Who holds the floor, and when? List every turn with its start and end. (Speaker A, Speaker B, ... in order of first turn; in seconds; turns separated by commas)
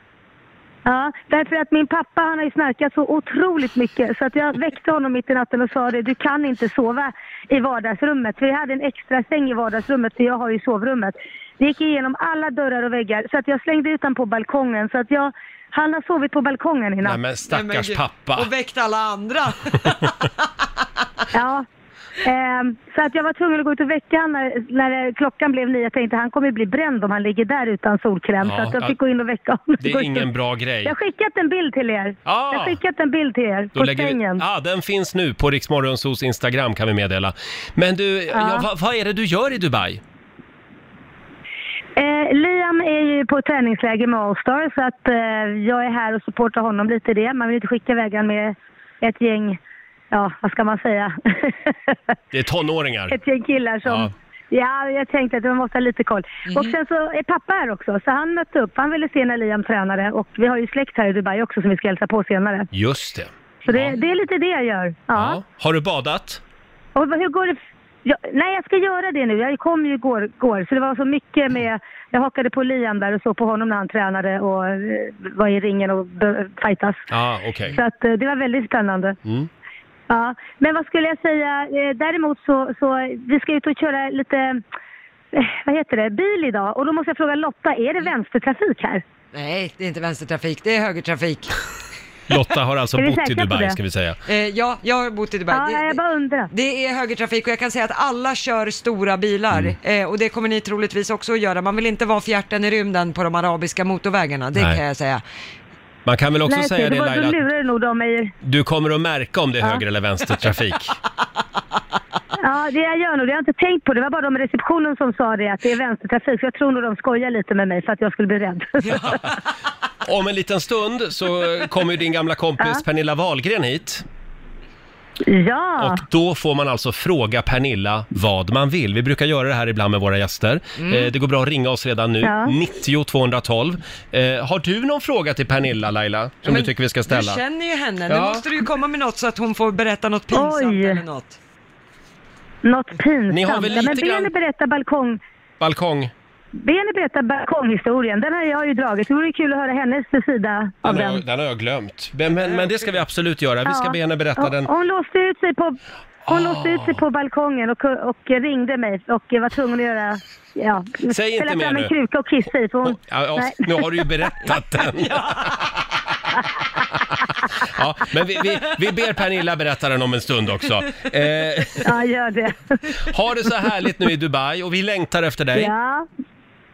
Speaker A: 0.8-17.2, Speaker B: 17.0-18.5, Speaker C: 17.4-20.3, Speaker A: 21.3-21.6, Speaker A: 22.2-30.3, Speaker B: 28.4-28.9, Speaker B: 29.8-30.9, Speaker A: 30.9-34.4, Speaker B: 32.3-32.8, Speaker B: 33.8-40.0, Speaker A: 38.3-38.7, Speaker A: 42.0-49.6, Speaker A: 50.1-52.0, Speaker B: 52.3-53.2, Speaker A: 53.1-62.7, Speaker B: 53.8-54.1, Speaker C: 56.5-56.8, Speaker B: 62.7-64.0, Speaker A: 63.7-65.4, Speaker B: 65.1-66.4, Speaker A: 67.0-77.0, Speaker B: 77.1-77.8, Speaker A: 77.7-79.2, Speaker A: 80.1-84.6, Speaker A: 85.3-89.0, Speaker C: 89.3-91.5, Speaker B: 92.3-94.2, Speaker A: 93.0-93.8, Speaker C: 94.3-96.0, Speaker A: 95.5-96.5, Speaker C: 96.5-105.2, Speaker B: 99.5-99.8, Speaker B: 104.5-104.8, Speaker B: 106.1-107.4, Speaker A: 106.5-108.3, Speaker B: 108.4-111.0, Speaker A: 112.4-119.0, Speaker C: 118.8-119.3, Speaker B: 120.0-124.0, Speaker A: 125.3-126.0, Speaker B: 125.8-137.4, Speaker C: 130.8-131.1, Speaker A: 132.2-132.5, Speaker C: 136.4-141.4, Speaker B: 138.1-138.5, Speaker A: 140.3-141.0, Speaker A: 142.6-145.2, Speaker B: 143.3-144.3, Speaker B: 145.6-146.1, Speaker A: 146.6-151.2, Speaker B: 150.8-154.7, Speaker A: 153.7-155.8, Speaker B: 156.3-157.0, Speaker A: 156.3-163.8, Speaker B: 161.1-161.9, Speaker B: 162.8-165.8, Speaker C: 165.0-165.6, Speaker B: 167.6-171.9, Speaker A: 171.8-172.6, Speaker B: 173.1-175.7, Speaker A: 175.6-176.1